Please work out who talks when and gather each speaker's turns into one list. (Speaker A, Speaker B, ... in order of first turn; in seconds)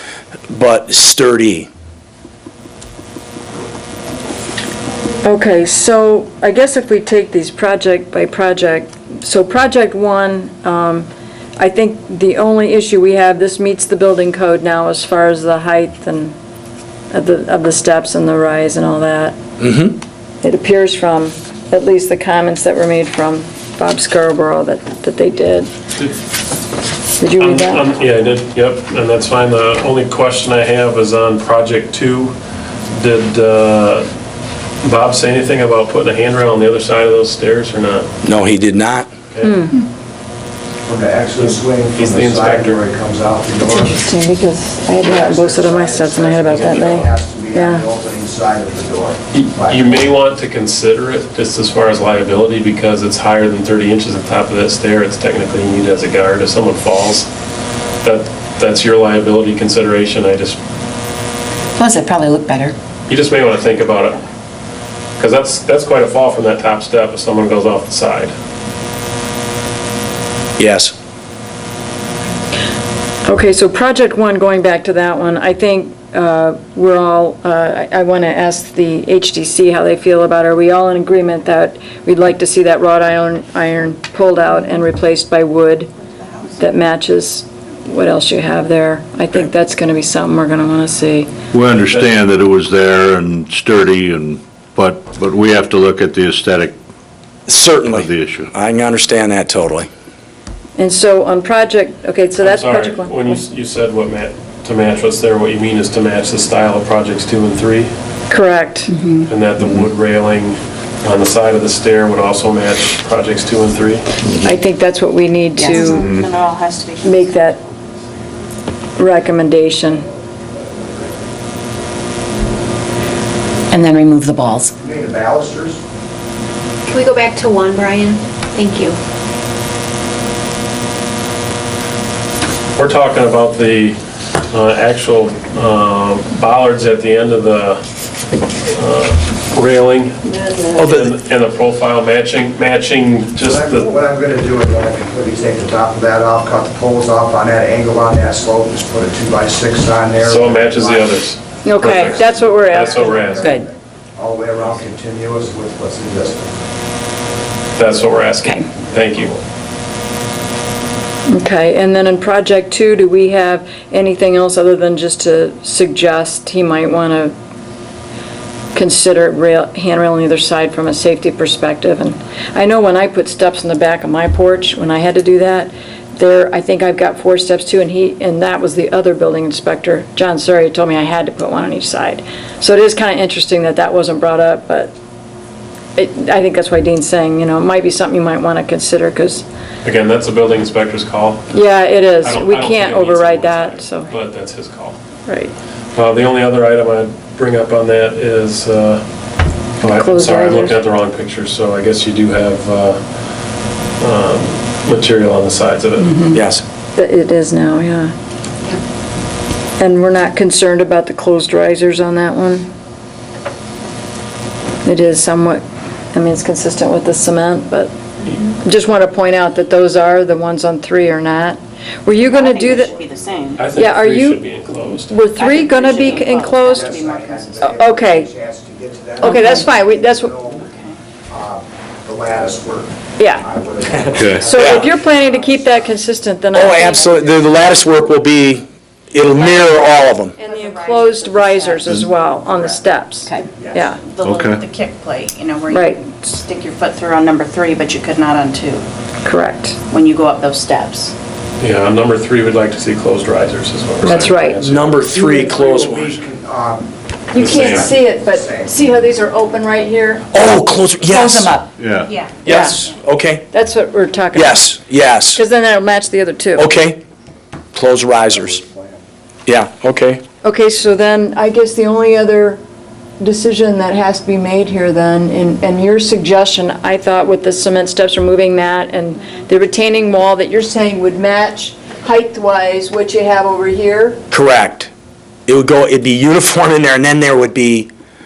Speaker A: 0.5-1.7, 19.6-19.9, 38.2-39.1, 70.6-71.0, 97.5-99.9, 140.8-141.1, 206.3-206.6, 234.1-234.9, 236.5-240.4, 254.6-256.2, 260.3-261.5, 262.4-263.5, 264.3-265.4, 266.6-267.0, 267.7-268.6, 269.5-270.2, 284.3-284.9, 285.5-287.9
Speaker B: 5.2-16.4, 17.1-19.4, 20.4-25.7, 27.2-27.9, 39.4-39.7, 43.7-47.9, 73.2-85.9, 86.6-91.3, 100.8-103.4, 108.3-108.9, 114.3-116.1, 117.0-117.6, 119.0-120.1, 140.3-140.7, 151.7-153.3, 161.3-167.3, 168.7-184.9, 186.0-189.4, 191.5-194.1, 195.3-195.6, 199.8-200.8, 206.0-206.4, 206.9-208.1, 209.8-212.7, 214.8-217.9, 218.5-223.0, 223.7-226.8, 227.6-228.3, 229.2-230.3, 233.2-233.4, 234.3-237.5, 240.4-244.0, 245.7-246.1, 249.2-249.8, 254.0-254.6, 255.2-255.4, 257.3-260.3, 262.4-262.8, 263.5-264.7, 265.3-266.7, 270.4-272.6, 273.2-284.2
Speaker C: 27.4-32.4, 32.9-34.1, 34.8-38.1, 39.3-39.6, 42.0-42.8, 46.5-47.1, 49.3-57.3, 58.0-60.6, 63.1-64.2, 65.2-68.3, 102.4-107.9, 109.2-114.1, 132.8-134.0, 134.5-137.8, 138.7-143.9, 150.2-153.6, 157.8-159.3, 189.8-191.5, 192.2-195.0, 195.9-199.0, 199.8-203.0, 204.0-206.3, 223.6-225.2, 251.6-254.9, 257.4-257.9
Speaker D: 40.9-44.0, 45.0-50.1, 124.8-125.8, 143.4-151.2, 151.8-156.6, 226.6-230.7, 231.3-235.9, 255.3-258.8, 268.3-269.0
Speaker E: 61.8-62.8, 108.9-109.3, 123.7-124.7, 153.3-153.7, 261.1-261.7
Speaker F: 91.5-96.8, 97.9-98.5, 244.2-244.6, 261.8-262.1
Speaker G: 115.6-117.5, 222.2-223.7, 225.4-227.7, 229.3-229.7, 230.5-231.0, 239.3-241.9, 243.3-248.9, 249.9-251.1, 262.0-262.4
Speaker H: 126.9-129.0